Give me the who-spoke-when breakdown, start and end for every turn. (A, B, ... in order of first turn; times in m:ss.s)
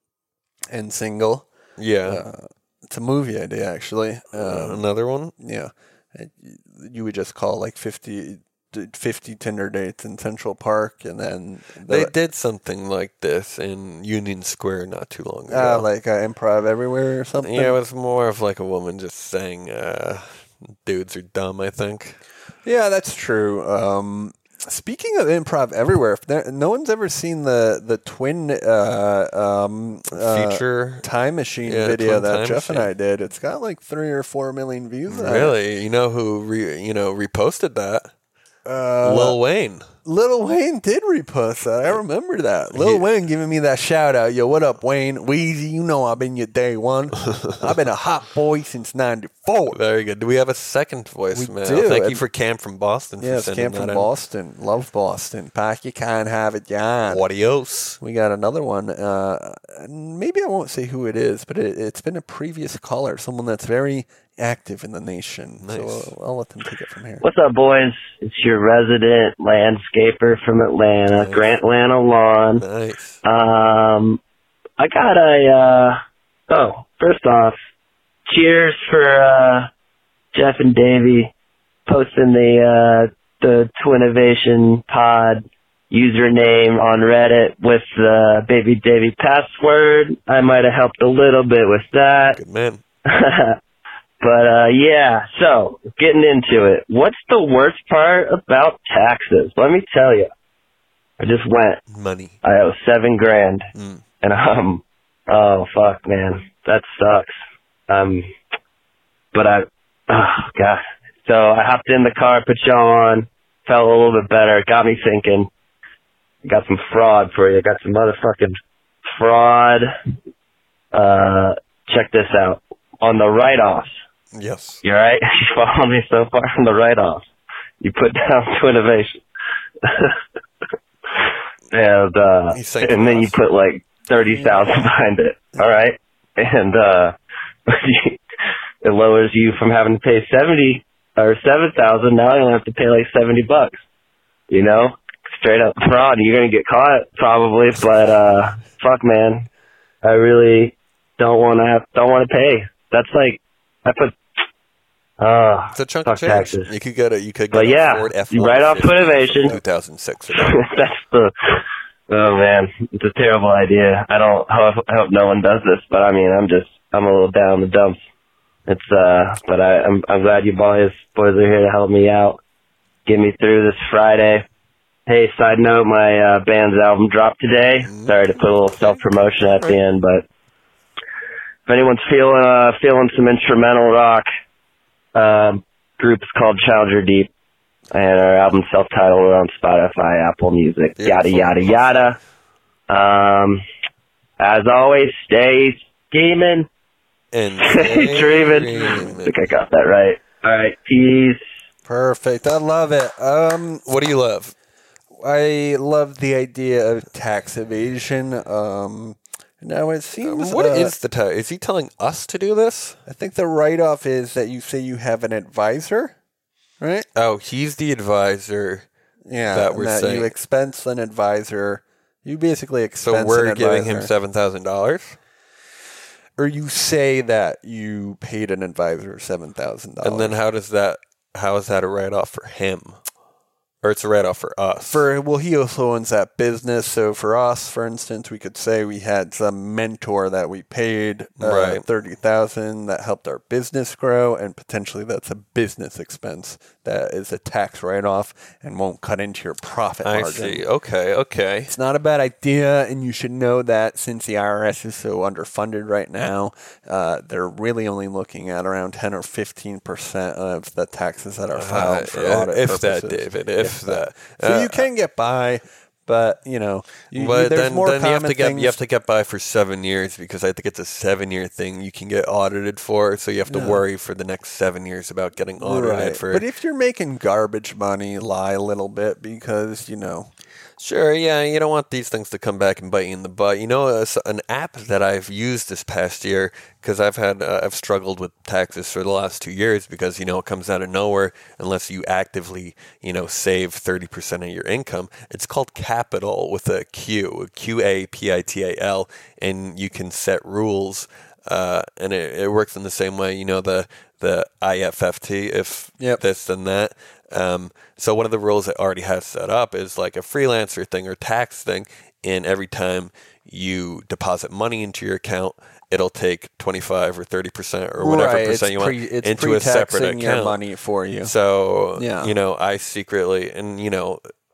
0:00.7-0:01.5 A
0:01.8-0:02.2 B
0:02.0-0:04.8 A
0:04.3-0:05.4 B
0:05.4-0:12.1 A
0:11.9-0:15.9 B
0:15.5-0:17.8 A
0:17.4-0:22.2 B
0:22.6-0:35.6 A
0:30.1-0:31.0 B
0:31.6-0:32.9 B
0:35.1-0:38.1 B
0:38.6-0:39.4 A
0:39.0-0:39.9 B
0:40.0-0:49.8 A
0:42.7-0:43.0 B
0:49.7-0:54.1 B
0:51.3-0:52.2 A
0:53.2-0:57.2 A
0:57.0-0:58.0 B
0:58.0-1:07.2 A
1:05.6-1:06.1 B
1:07.2-1:12.6 C
1:11.1-1:11.6 B
1:12.6-1:13.2 B
1:13.2-1:14.2 C
1:14.8-1:16.0 C
1:16.5-1:17.6 C
1:18.3-1:19.7 C
1:20.3-1:21.3 C
1:21.9-1:32.4 C
1:32.3-1:32.8 B
1:33.0-1:33.6 C
1:34.2-1:40.3 C
1:41.2-1:41.8 C
1:41.9-1:42.4 B
1:42.4-1:43.7 C
1:43.8-1:44.0 B
1:44.2-1:47.3 C
1:47.9-1:48.3 C
1:49.3-1:55.5 C
1:56.4-1:59.9 C
2:00.9-2:04.0 C
2:04.4-2:04.8 B
2:04.8-2:07.2 C
2:07.8-2:09.2 C
2:09.8-2:10.2 C
2:11.1-2:17.1 C
2:12.5-2:13.4 B
2:17.7-2:18.2 C
2:18.8-2:23.8 C
2:24.5-2:29.5 C
2:30.0-2:34.2 C
2:35.2-2:36.7 C
2:35.7-2:40.6 B
2:37.5-2:39.6 C
2:40.3-2:48.0 C
2:48.7-2:52.4 C
2:53.0-2:54.4 C
2:55.1-3:00.2 C
2:57.8-2:59.8 B
3:01.7-3:04.3 C
3:05.1-3:07.3 C
3:07.9-3:12.2 C
3:11.0-3:12.0 B
3:12.9-3:13.6 C
3:14.4-3:16.7 C
3:17.3-3:19.4 B
3:17.6-3:21.4 C
3:18.7-3:19.2 A
3:21.9-3:23.9 A
3:23.8-3:24.5 B
3:25.2-3:31.0 A
3:30.2-3:33.0 B
3:33.1-3:36.1 A
3:36.8-3:37.1 A
3:37.1-3:38.9 B
3:39.3-3:44.1 A
3:39.5-3:40.3 B
3:43.0-3:45.2 B
3:46.4-3:50.4 A
3:50.0-3:53.0 B
3:53.8-3:55.0 B
3:54.9-4:10.6 A
4:01.4-4:01.8 B
4:10.0-4:11.7 B
4:11.7-4:28.8 A
4:21.5-4:24.9 B
4:27.1-4:36.4 B
4:33.5-4:33.8 A
4:35.6-4:40.3 A
4:40.8-5:20.6 B
5:18.0-5:21.3 A
5:21.2-5:24.2 B
5:22.0-5:22.4 A